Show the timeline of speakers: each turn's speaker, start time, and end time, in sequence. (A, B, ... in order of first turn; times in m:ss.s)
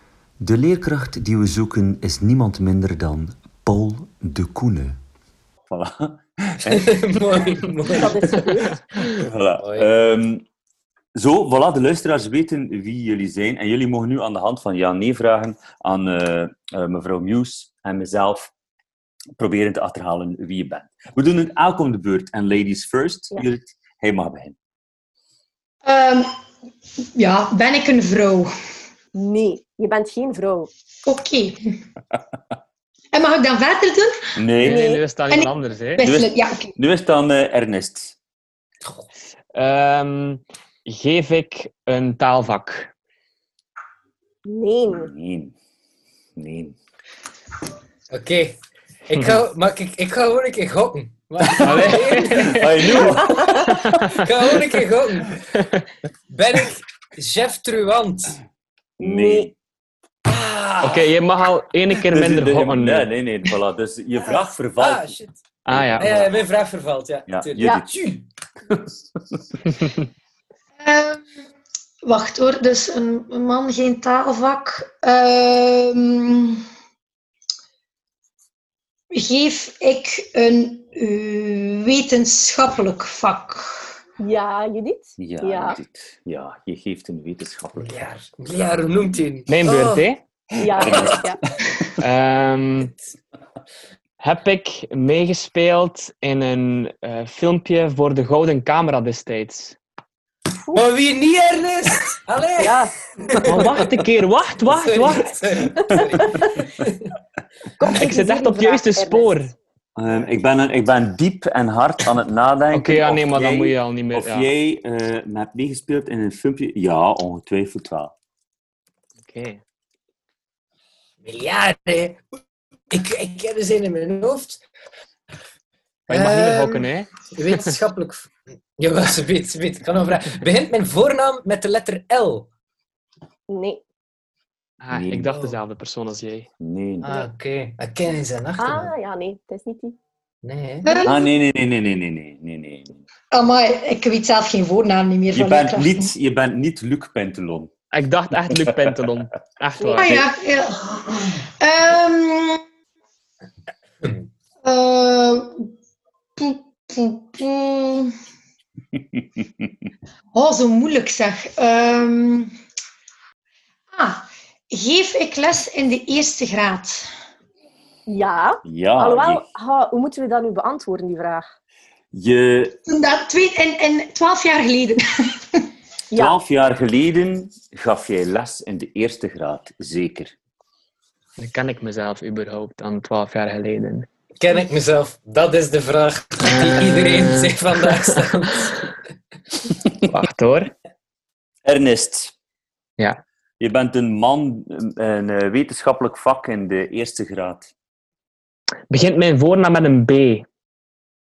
0:00.4-0:05.0 A
0:05.7-0:10.4 A
0:06.7-0:08.6 B
0:07.9-0:09.1 C
0:09.6-0:09.9 B
0:11.1-0:18.5 A
0:19.4-0:24.5 A
0:25.8-0:26.3 D
0:27.1-0:28.5 D
0:29.1-0:30.7 C
0:31.0-0:31.8 D
0:33.1-0:34.4 D
0:34.4-0:34.9 A
0:34.6-0:36.1 E
0:34.6-0:35.0 C
0:35.3-0:36.7 D
0:36.0-0:38.2 A
0:39.5-0:42.9 E
0:44.4-0:45.1 C
0:44.9-0:45.5 A
0:46.4-0:46.8 A
0:48.1-0:55.4 B
0:51.5-0:53.6 A
0:51.6-0:54.2 E
0:55.5-0:55.8 E
0:56.3-0:58.4 B
0:59.0-0:59.5 A
0:59.0-0:59.5 C
1:00.2-1:01.1 B
1:00.8-1:03.1 E
1:02.0-1:05.1 A
1:04.2-1:05.4 B
1:05.6-1:06.3 E
1:05.7-1:06.3 A
1:06.0-1:08.2 B
1:07.3-1:08.1 A
1:08.7-1:09.4 A
1:09.7-1:10.0 E
1:10.8-1:11.4 D
1:12.0-1:16.6 D
1:19.1-1:24.0 D
1:24.2-1:25.8 C
1:25.2-1:28.0 A
1:27.8-1:30.1 B
1:29.5-1:30.2 E
1:30.6-1:31.4 C
1:30.6-1:31.3 A
1:30.8-1:31.2 B
1:32.0-1:32.9 E
1:34.2-1:39.8 E
1:40.7-1:44.0 B
1:42.6-1:42.9 C
1:43.4-1:45.3 E
1:44.6-1:47.1 B
1:47.8-1:49.4 C
1:47.9-1:49.5 E
1:50.0-1:58.1 A
1:52.7-1:54.5 E
1:59.2-1:59.6 E
2:01.2-2:02.2 B
2:02.9-2:04.6 B
2:06.1-2:07.7 E
2:06.1-2:12.5 B
2:13.5-2:13.8 C
2:14.8-2:16.5 E
2:14.9-2:15.4 A
2:15.2-2:15.5 B
2:16.6-2:17.1 A
2:17.0-2:18.9 B
2:18.6-2:20.0 C
2:20.4-2:21.1 B
2:20.8-2:21.2 D
2:21.0-2:23.0 A
2:23.3-2:26.1 D
2:25.3-2:27.7 A
2:27.9-2:30.2 E
2:28.5-2:28.8 A
2:29.8-2:30.1 C
2:29.9-2:32.6 D
2:34.6-2:35.7 D
2:36.4-2:38.1 D
2:39.0-2:39.7 A
2:40.3-2:42.5 D
2:43.9-2:47.1 D
2:48.1-2:51.4 C
2:48.6-2:49.4 A
2:52.1-2:52.8 A
2:52.9-2:55.7 D
2:56.1-3:00.3 A
3:01.4-3:04.1 E
3:04.4-3:08.9 B
3:06.4-3:08.2 E
3:10.1-3:10.7 E
3:11.6-3:12.3 A
3:13.6-3:17.7 A
3:18.9-3:20.4 E